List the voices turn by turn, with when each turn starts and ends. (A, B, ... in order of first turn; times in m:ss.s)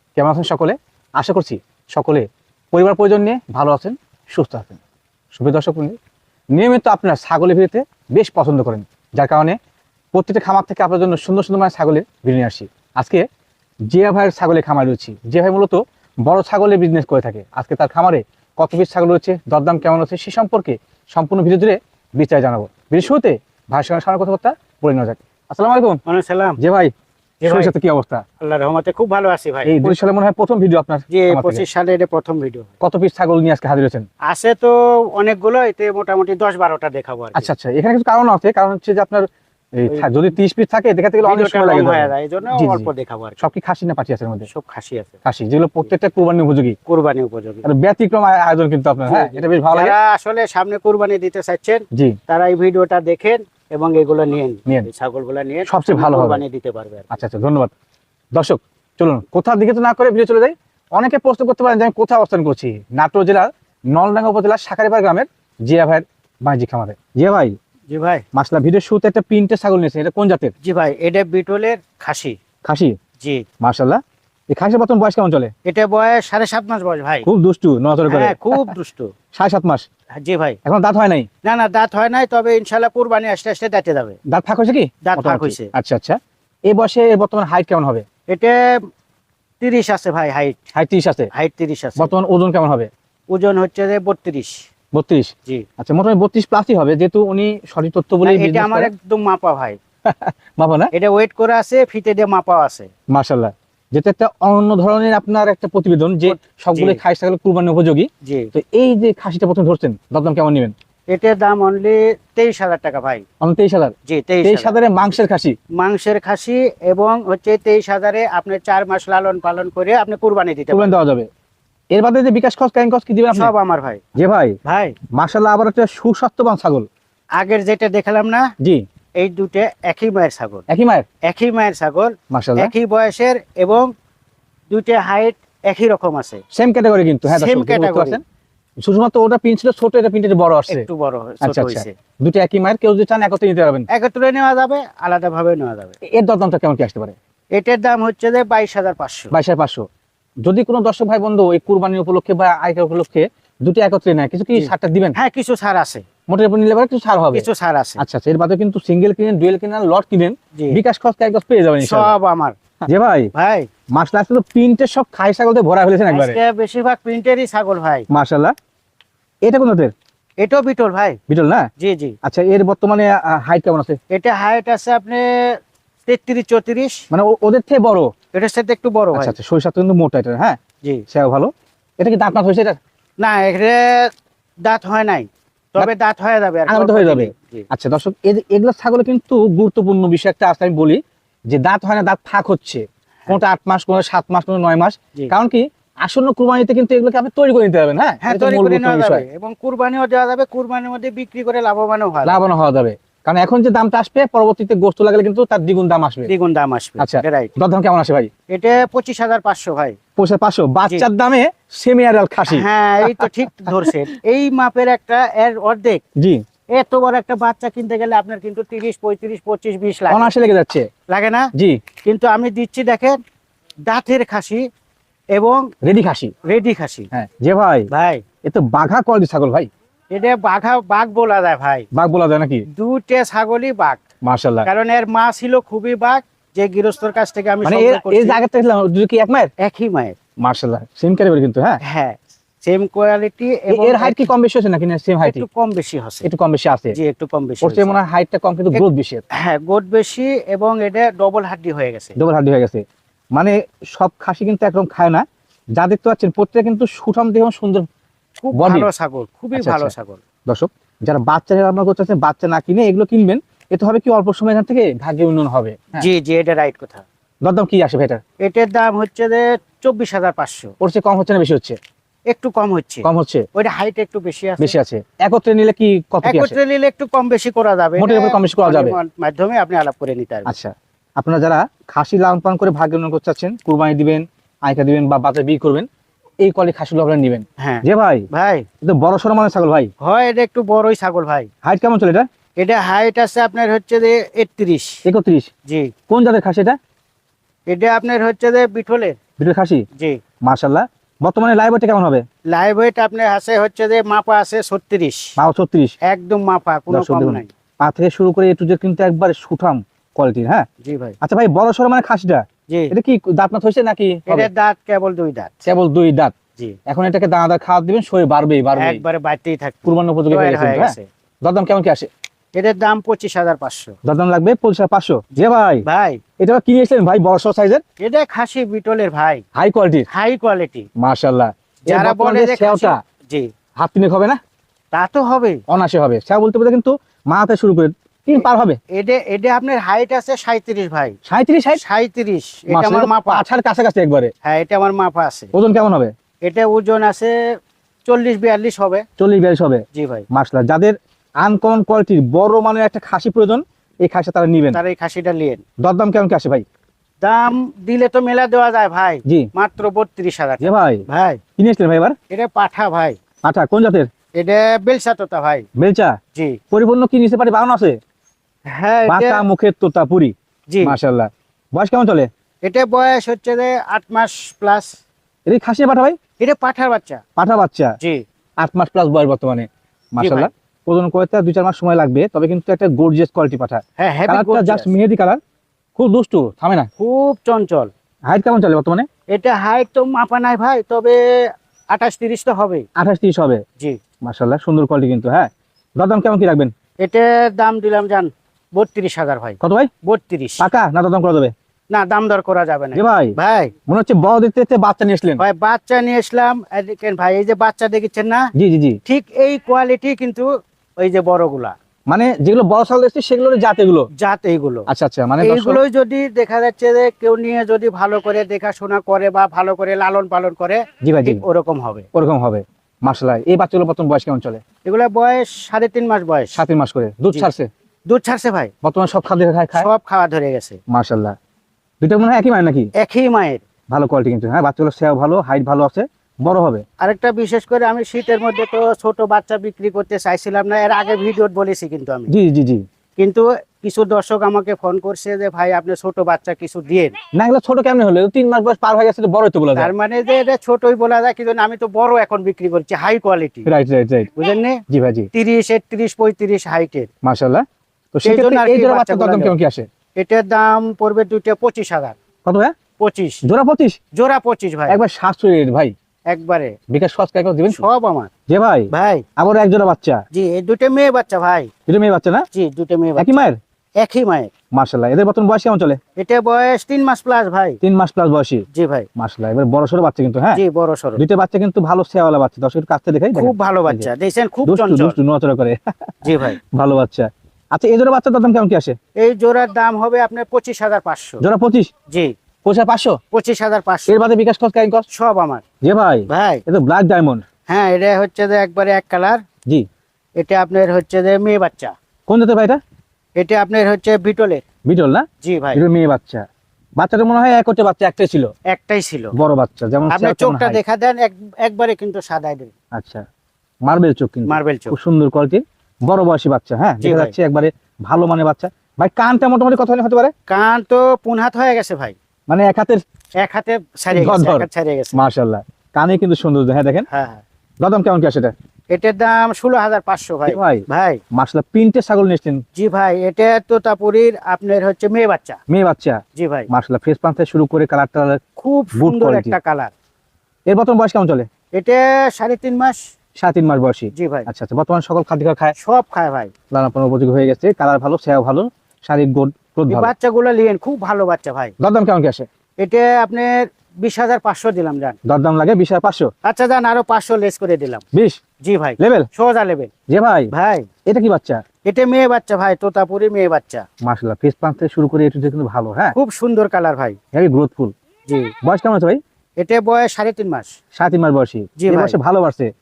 0:00.2-0:04.8 A
0:05.3-0:06.0 A
0:06.5-0:09.6 A
0:10.1-0:13.2 A
0:13.9-0:26.0 A
0:26.1-0:26.6 B
0:26.6-0:26.9 A
0:27.4-0:27.7 B
0:27.4-0:28.2 A
0:28.4-0:30.0 B
0:29.6-0:31.6 A
0:31.1-0:32.7 B
0:32.8-0:34.1 A
0:34.2-0:37.5 B
0:37.4-0:44.5 A
0:41.2-0:43.4 B
0:44.5-0:45.2 B
0:45.2-0:46.8 A
0:46.9-0:47.7 B
0:47.6-0:50.0 A
0:49.1-0:57.2 B
0:51.9-0:52.2 A
0:55.7-0:56.4 A
0:57.1-0:57.7 A
0:58.3-1:07.6 A
1:07.9-1:08.2 B
1:08.3-1:10.5 A
1:10.6-1:12.4 B
1:12.6-1:13.0 A
1:13.2-1:13.4 B
1:13.6-1:15.5 A
1:15.6-1:17.3 B
1:17.2-1:18.7 A
1:18.1-1:19.1 B
1:19.3-1:19.9 A
1:20.2-1:20.6 B
1:20.6-1:21.3 A
1:21.4-1:24.2 B
1:24.3-1:28.0 A
1:25.0-1:25.7 B
1:28.3-1:28.8 B
1:29.6-1:30.6 B
1:30.7-1:31.3 A
1:31.3-1:32.1 B
1:32.0-1:32.9 A
1:33.3-1:34.6 B
1:34.9-1:38.9 A
1:38.2-1:39.8 B
1:40.1-1:40.9 A
1:40.9-1:42.9 B
1:43.1-1:50.7 A
1:46.3-1:47.0 B
1:48.2-1:48.5 B
1:51.1-1:53.2 B
1:53.4-1:55.6 A
1:54.1-1:54.8 B
1:55.8-2:01.0 B
2:00.7-2:01.3 A
2:01.9-2:03.5 A
2:03.3-2:04.0 B
2:04.2-2:04.6 A
2:04.6-2:05.0 B
2:05.1-2:06.9 A
2:07.4-2:08.5 B
2:09.2-2:10.7 B
2:10.7-2:11.1 A
2:11.2-2:13.9 B
2:12.3-2:12.7 A
2:14.7-2:16.4 B
2:16.5-2:18.2 A
2:17.3-2:18.2 B
2:18.8-2:20.9 A
2:20.7-2:21.9 B
2:21.4-2:23.9 A
2:23.9-2:26.0 B
2:26.1-2:27.2 A
2:27.5-2:29.3 B
2:29.3-2:29.9 A
2:30.4-2:35.2 A
2:34.5-2:36.0 B
2:36.3-2:37.5 A
2:37.3-2:38.0 B
2:38.0-2:42.1 A
2:40.5-2:40.8 B
2:41.8-2:42.6 B
2:42.9-2:43.3 A
2:43.3-2:43.7 B
2:43.9-2:46.4 A
2:46.1-2:48.1 B
2:48.1-2:48.6 A
2:49.4-2:49.9 A
2:50.4-2:51.2 B
2:51.3-2:51.7 A
2:51.8-2:52.2 B
2:52.2-2:54.0 A
2:54.1-2:57.0 B
2:57.1-2:58.1 A
2:58.3-2:59.4 B
2:59.1-3:00.6 A
3:01.1-3:02.8 A
3:03.2-3:04.1 B
3:04.6-3:07.7 B
3:06.7-3:19.2 A
3:18.2-3:22.4 B
3:22.2-3:26.3 A
3:26.3-3:27.5 B
3:27.0-3:28.3 A
3:28.5-3:30.0 B
3:30.2-3:33.9 A
3:32.5-3:36.0 B
3:36.7-3:40.3 B
3:40.1-3:40.9 A
3:41.1-3:41.5 B
3:41.6-3:41.8 A
3:42.0-3:43.2 B
3:43.8-3:44.7 B
3:45.3-3:45.7 B
3:45.8-3:46.3 A
3:46.4-3:47.1 B
3:47.1-3:47.9 A
3:47.9-3:48.2 B
3:48.4-3:49.7 A
3:50.1-3:51.9 B
3:51.9-3:52.7 A
3:52.7-3:54.0 B
3:54.2-3:54.7 A
3:54.6-3:58.4 B
3:57.6-3:59.5 A
3:59.6-4:00.2 B
4:00.4-4:01.8 A
4:01.8-4:04.3 B
4:03.7-4:05.4 A
4:05.2-4:06.3 B
4:06.2-4:07.0 A
4:06.9-4:08.0 B
4:07.6-4:09.2 A
4:08.7-4:12.2 B
4:12.2-4:12.8 A
4:13.4-4:17.9 A
4:18.4-4:20.2 B
4:18.5-4:18.9 A
4:19.5-4:19.9 A
4:20.5-4:26.1 A
4:26.0-4:27.0 B
4:27.4-4:28.2 A
4:28.4-4:30.7 B
4:30.8-4:31.8 A
4:32.3-4:34.7 B
4:33.0-4:33.5 A
4:34.6-4:36.6 A
4:36.2-4:40.6 B
4:38.0-4:39.0 A
4:40.5-4:45.9 A
4:46.4-4:48.3 A
4:47.6-4:48.7 B
4:48.8-4:49.9 A
4:50.0-4:51.5 B
4:51.6-4:52.3 A
4:52.6-4:55.0 B
4:55.0-4:55.5 A
4:55.7-4:55.9 B
4:56.1-4:56.8 A
4:57.7-4:59.2 B
4:59.4-4:59.8 A
5:00.4-5:02.3 A
5:02.5-5:05.4 B
5:05.4-5:06.0 A
5:06.0-5:07.5 B
5:06.9-5:10.7 A
5:10.8-5:11.2 B
5:11.2-5:14.5 A
5:14.3-5:15.7 B
5:15.7-5:16.3 A
5:16.9-5:19.0 A
5:18.8-5:21.1 B
5:19.9-5:22.1 A
5:22.6-5:23.9 B
5:24.0-5:25.8 A
5:25.8-5:26.2 B
5:26.4-5:27.8 A
5:28.0-5:29.4 B
5:29.6-5:30.1 A
5:30.1-5:30.9 B
5:31.0-5:33.0 A
5:31.9-5:33.5 B
5:33.8-5:34.4 A
5:34.9-5:35.6 B
5:35.7-5:38.8 A
5:38.9-5:41.2 B
5:41.3-5:41.8 A
5:41.8-5:43.5 B
5:42.7-5:44.3 A
5:44.4-5:45.5 B
5:45.5-5:46.1 A
5:46.4-5:47.4 B
5:48.0-5:49.0 B
5:49.2-5:54.8 A
5:49.9-5:50.3 B
5:54.7-5:55.6 B
5:55.8-5:56.6 A
5:57.2-6:01.4 B
6:00.6-6:01.0 A
6:01.6-6:02.2 A
6:02.3-6:03.2 B
6:03.4-6:04.1 A
6:04.3-6:05.7 B
6:05.8-6:06.2 A
6:06.4-6:06.6 B
6:06.7-6:08.0 A
6:08.7-6:09.4 B
6:09.1-6:12.3 A
6:10.7-6:11.0 B
6:12.6-6:14.9 B
6:15.5-6:16.2 A
6:16.4-6:17.2 B
6:17.4-6:18.0 A
6:18.6-6:25.4 A
6:20.2-6:20.5 B
6:24.0-6:24.9 B
6:26.0-6:26.9 A
6:27.0-6:27.9 B
6:28.3-6:29.1 A
6:29.3-6:32.9 B
6:33.0-6:33.6 A
6:34.2-6:36.7 A
6:37.0-6:40.7 B
6:39.6-6:39.9 A
6:40.6-6:41.5 A
6:41.9-6:43.7 B
6:42.9-6:45.4 A
6:45.4-6:48.5 B
6:48.6-6:49.0 A
6:49.0-6:51.8 B
6:52.1-6:54.1 A
6:54.2-6:54.9 B
6:54.9-6:55.8 A
6:55.4-7:02.1 B
7:01.0-7:01.4 A
7:02.2-7:04.6 A
7:04.8-7:06.6 B
7:06.5-7:07.7 A
7:08.1-7:08.7 B
7:08.8-7:09.9 A
7:09.7-7:10.8 B
7:10.9-7:11.4 A
7:12.0-7:12.9 A
7:13.0-7:13.6 B
7:13.9-7:16.8 A
7:17.0-7:22.3 B
7:22.3-7:22.8 A
7:23.2-7:27.2 B
7:27.3-7:29.9 A
7:29.8-7:33.7 B
7:33.7-7:34.3 A
7:34.4-7:34.8 B
7:34.9-7:35.3 A
7:35.3-7:37.1 B
7:37.2-7:39.9 A
7:38.2-7:39.6 B
7:40.2-7:42.2 B
7:42.4-7:42.8 A
7:43.0-7:43.4 B
7:43.4-7:44.0 A
7:44.1-7:45.0 B
7:44.9-7:45.9 A
7:46.3-7:46.8 B
7:46.9-7:47.9 A
7:47.7-7:48.3 B
7:48.5-7:50.2 A
7:48.9-7:49.2 B
7:50.3-7:51.7 B
7:51.9-7:52.5 A
7:52.5-7:53.5 B
7:53.2-7:53.6 A
7:54.0-7:54.5 B
7:54.7-7:56.0 A
7:56.2-7:57.8 B
7:57.8-7:58.6 A
7:58.7-7:59.1 B
7:59.2-8:00.6 A
8:00.5-8:01.2 B
8:01.2-8:04.1 A
8:03.3-8:05.2 B
8:04.6-8:09.0 A
8:06.2-8:06.6 B
8:09.2-8:11.4 B
8:11.4-8:11.9 A
8:12.6-8:13.2 A
8:13.3-8:14.2 B
8:14.1-8:15.1 A
8:15.1-8:15.6 B
8:15.8-8:17.4 A
8:16.3-8:16.6 B
8:17.7-8:19.4 B
8:20.4-8:21.9 B
8:22.3-8:22.8 A
8:23.4-8:24.6 B
8:24.9-8:26.4 A
8:25.4-8:25.8 B
8:27.0-8:28.5 A
8:28.7-8:29.3 B
8:29.3-8:30.8 A
8:30.1-8:32.7 B
8:32.9-8:33.2 A
8:33.8-8:40.3 A
8:34.5-8:35.0 B
8:37.0-8:37.3 B
8:40.5-8:42.2 B
8:42.5-8:43.0 A
8:43.4-8:45.2 B
8:44.1-8:47.1 A
8:47.1-8:47.4 B
8:47.8-8:48.5 A
8:48.9-8:51.2 B
8:50.5-8:52.6 A
8:52.8-8:55.6 B
8:55.7-8:58.4 A
8:56.4-8:56.7 B
8:58.6-8:59.9 B
8:59.0-8:59.6 A
9:00.7-9:01.5 A
9:01.7-9:03.0 B
9:03.4-9:05.8 A
9:04.1-9:04.5 B
9:05.8-9:06.5 B
9:06.7-9:10.1 A
9:09.9-9:11.8 B
9:11.8-9:12.5 A
9:12.8-9:15.2 B
9:15.3-9:16.3 A
9:16.4-9:18.0 B
9:18.1-9:18.4 A
9:18.6-9:19.9 B
9:19.0-9:19.3 A
9:20.1-9:20.5 A
9:20.5-9:20.9 B
9:21.1-9:21.6 A
9:21.8-9:23.9 B
9:24.0-9:26.2 A
9:26.1-9:27.2 B
9:27.3-9:27.9 A
9:28.3-9:28.5 B
9:28.6-9:29.2 A
9:29.6-9:30.8 B
9:31.0-9:32.7 A
9:31.8-9:32.2 B